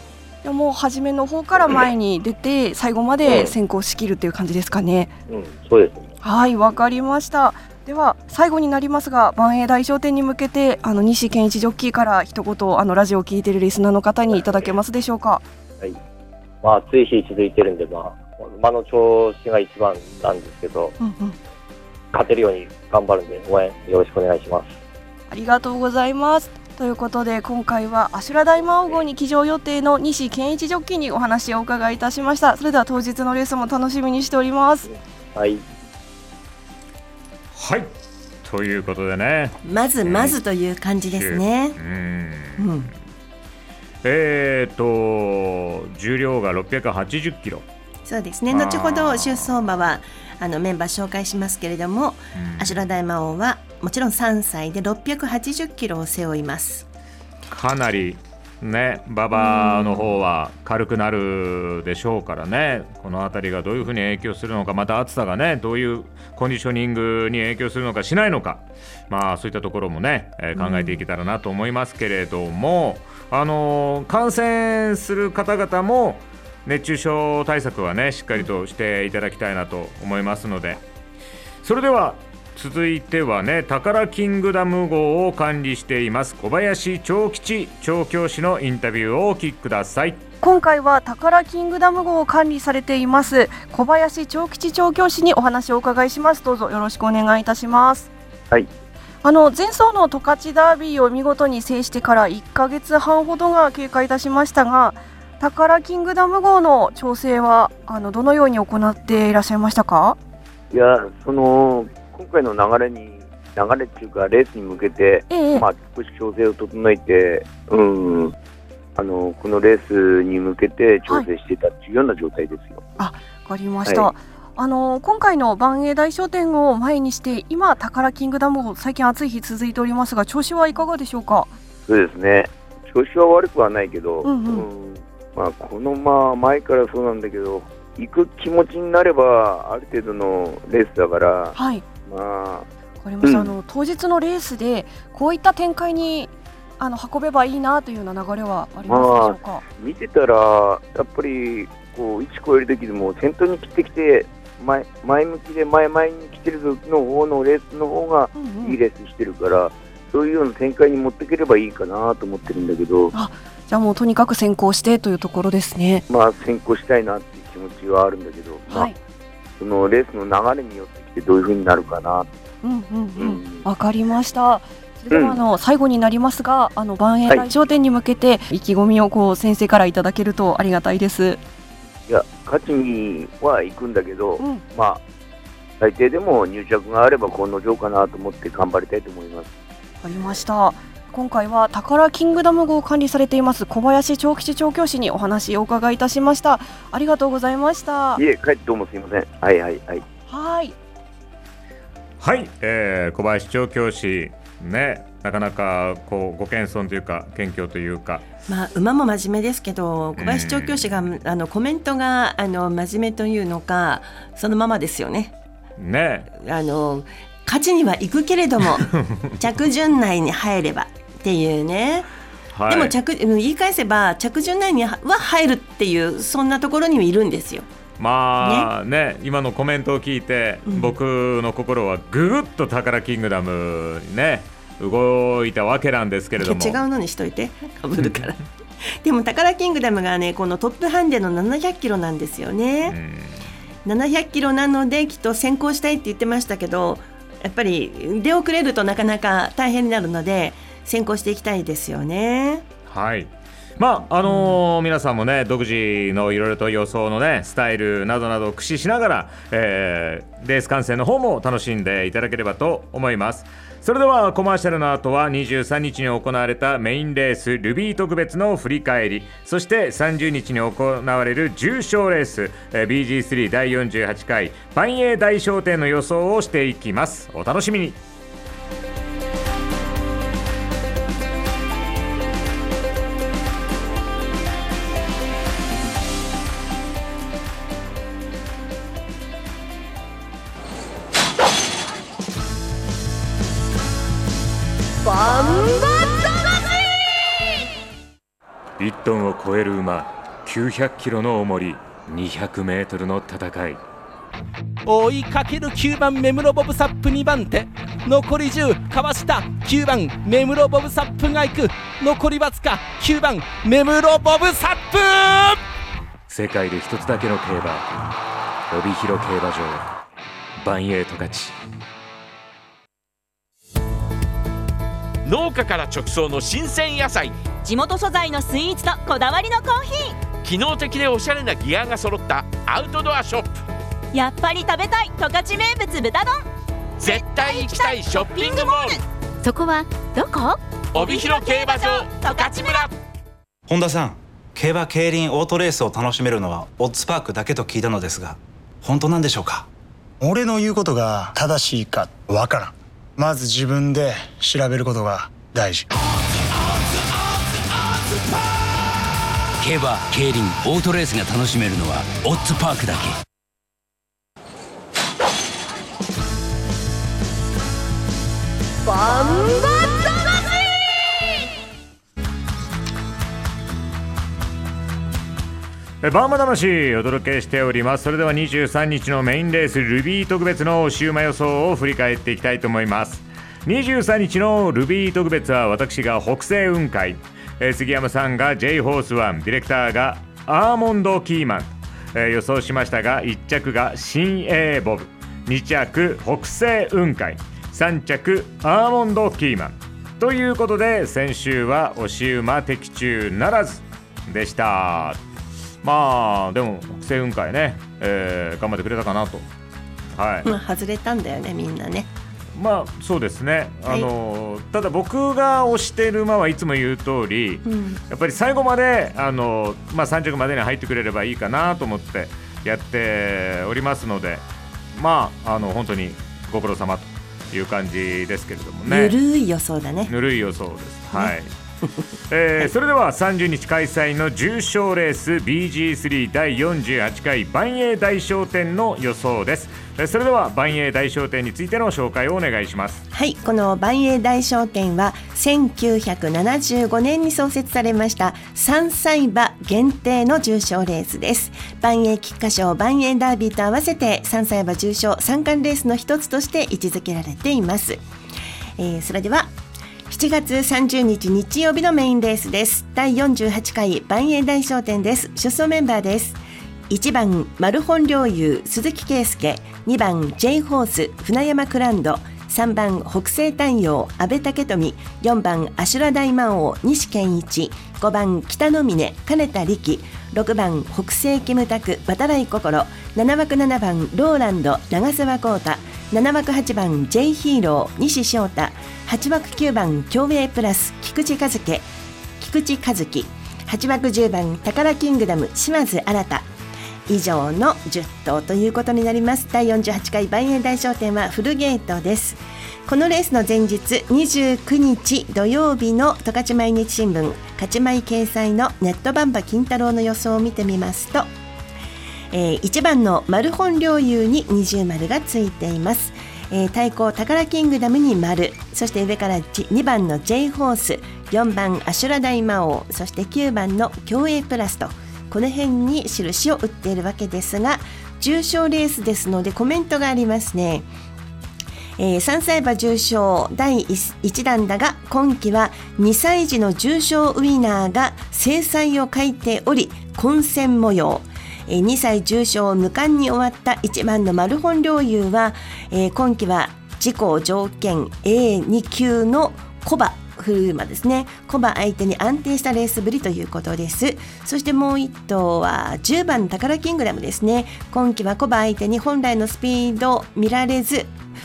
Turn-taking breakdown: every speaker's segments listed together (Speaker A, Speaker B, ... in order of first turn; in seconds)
Speaker A: 0.4-5.1, 6.2-15.4, 21.0-21.4, 25.3-34.9, 90.4-98.1, 99.2-110.2, 115.3-115.6, 123.0-131.5, 134.2-134.7, 141.6-141.8, 143.0-149.6, 158.3-158.8, 163.1-166.0, 168.7-169.0, 172.6-181.4, 190.0-198.2, 200.3-200.8
Speaker B: 3.2-3.5, 5.3-6.1, 16.6-21.0, 22.1-24.8, 35.4-35.6
Speaker C: 37.5-37.9, 38.4-40.4, 41.1-42.6, 44.0-47.6, 48.5-49.5, 52.4-52.8, 57.5-80.8, 81.6-90.2, 202.2-208.2, 210.2-210.8, 215.8-216.3, 222.5-222.9, 228.0-236.8, 242.9-243.4, 252.9-278.0, 298.8-303.8, 316.3-317.9, 318.7-319.9, 320.6-321.5, 376.0-405.2, 405.8-409.5, 410.1-410.5, 412.5-429.1, 430.1-431.5, 432.3-443.0
Speaker D: 39.6-41.8, 42.6-42.9, 48.0-56.9, 59.4-60.1, 208.5-215.3, 216.4-222.1, 222.7-227.7, 228.4-228.7, 230.7-230.9, 236.4-238.4, 239.0-243.0, 243.8-252.6, 254.3-254.5, 410.4-412.1, 417.6-418.0, 428.9-430.1, 443.1-458.0, 458.8-459.5, 460.1-466.4, 466.9-491.9, 492.4-496.5, 497.1-511.3, 512.3-530.9, 532.0-561.1
Speaker E: 110.7-118.3, 119.0-122.8, 131.9-141.5, 142.1-142.7, 143.2-143.5, 148.9-163.1, 166.1-168.9, 169.6-172.3, 173.2-173.7, 175.1-175.4, 182.1-185.0, 185.8-189.5, 198.2-200.0
Speaker F: 304.9-315.6
Speaker G: 325.2-327.4, 330.4-333.6, 337.0-339.0, 340.9-342.9
Speaker H: 327.6-330.2, 334.1-336.4, 337.1-342.9
Speaker I: 343.7-349.7
Speaker J: 350.2-355.9
Speaker K: 359.6-363.1